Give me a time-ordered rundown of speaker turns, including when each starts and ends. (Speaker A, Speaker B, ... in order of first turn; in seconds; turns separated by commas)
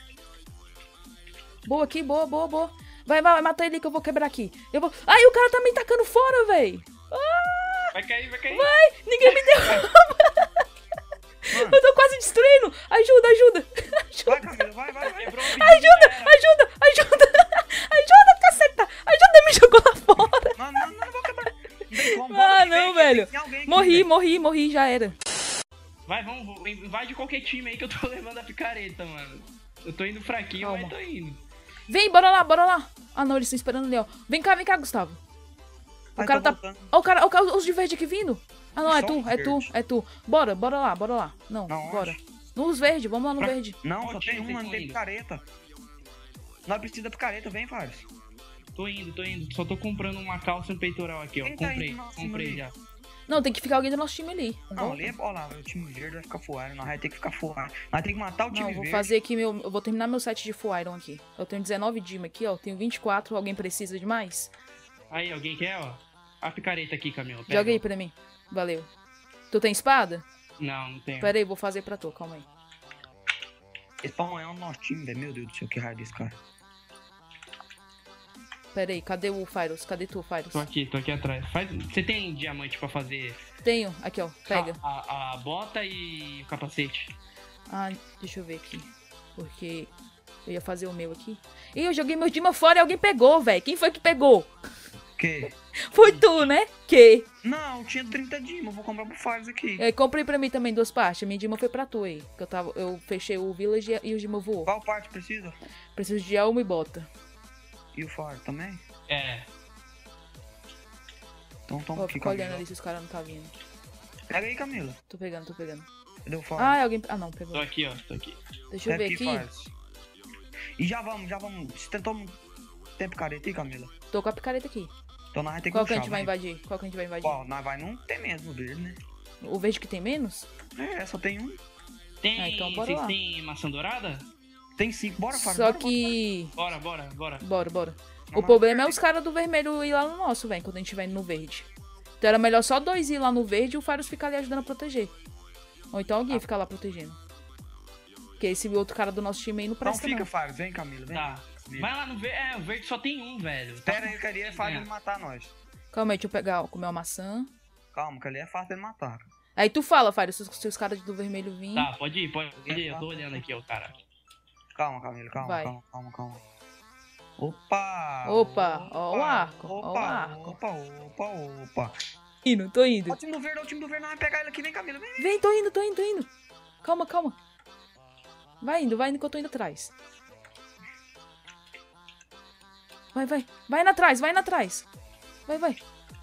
Speaker A: 1.6-8.0, Speaker B: 7.9-8.7, Speaker A: 8.5-10.6, Speaker B: 9.3-9.8, Speaker C: 11.5-11.8, Speaker A: 11.5-14.5, Speaker C: 14.2-15.3, Speaker A: 15.0-20.6, Speaker B: 15.1-16.4, Speaker C: 20.6-24.1, Speaker A: 22.1-25.1, Speaker B: 26.1-31.4, Speaker A: 30.6-30.9, Speaker A: 31.9-35.2, Speaker C: 36.1-36.9, Speaker A: 36.2-43.8, Speaker C: 38.9-39.7, Speaker C: 41.7-42.2, Speaker B: 43.4-45.0, Speaker C: 43.8-45.4, Speaker C: 46.6-48.1, Speaker B: 48.8-52.7, Speaker C: 51.4-52.6, Speaker A: 53.3-55.1, Speaker C: 54.7-59.1, Speaker A: 58.5-64.5, Speaker B: 65.1-67.8, Speaker A: 67.5-68.9, Speaker A: 69.5-70.2, Speaker B: 70.6-71.3, Speaker A: 71.2-72.5, Speaker C: 74.0-76.4, Speaker A: 78.7-80.7, Speaker B: 80.5-83.4, Speaker A: 83.6-84.8, Speaker B: 84.5-87.1, Speaker A: 87.7-89.9, Speaker A: 90.4-94.5, Speaker C: 95.2-95.5, Speaker A: 95.9-97.3, Speaker C: 97.4-99.8, Speaker A: 99.8-104.7, Speaker C: 104.6-105.6, Speaker A: 105.9-107.1, Speaker C: 107.9-108.8, Speaker B: 109.1-109.5, Speaker C: 111.7-112.6, Speaker A: 112.0-113.5, Speaker C: 114.3-115.0, Speaker A: 115.1-115.9, Speaker C: 116.2-116.8, Speaker A: 116.5-117.7, Speaker B: 117.5-118.4, Speaker A: 118.7-119.5, Speaker C: 118.9-119.7, Speaker C: 120.8-122.4, Speaker C: 123.0-123.9, Speaker A: 124.1-124.9, Speaker C: 125.3-126.3, Speaker A: 125.7-127.4, Speaker C: 127.2-129.0, Speaker A: 129.4-130.5, Speaker C: 130.8-131.6, Speaker B: 132.2-134.2, Speaker A: 132.3-133.2, Speaker C: 134.8-136.2, Speaker A: 135.3-136.5, Speaker B: 136.6-137.4, Speaker A: 137.4-141.7, Speaker C: 138.3-139.0, Speaker A: 142.2-145.1, Speaker A: 145.9-147.2, Speaker A: 148.4-150.3, Speaker C: 149.8-151.9, Speaker B: 151.1-154.9, Speaker C: 153.8-155.5, Speaker A: 155.9-157.5, Speaker C: 157.9-159.3, Speaker A: 159.6-161.9, Speaker B: 161.7-164.0, Speaker C: 162.6-163.4, Speaker C: 164.7-166.4, Speaker A: 165.4-165.7, Speaker C: 167.4-171.9, Speaker A: 168.2-170.6, Speaker A: 172.4-173.2, Speaker C: 173.1-175.3, Speaker A: 175.2-176.3, Speaker A: 176.8-177.3, Speaker A: 178.6-179.9, Speaker A: 183.1-184.8, Speaker A: 185.5-185.8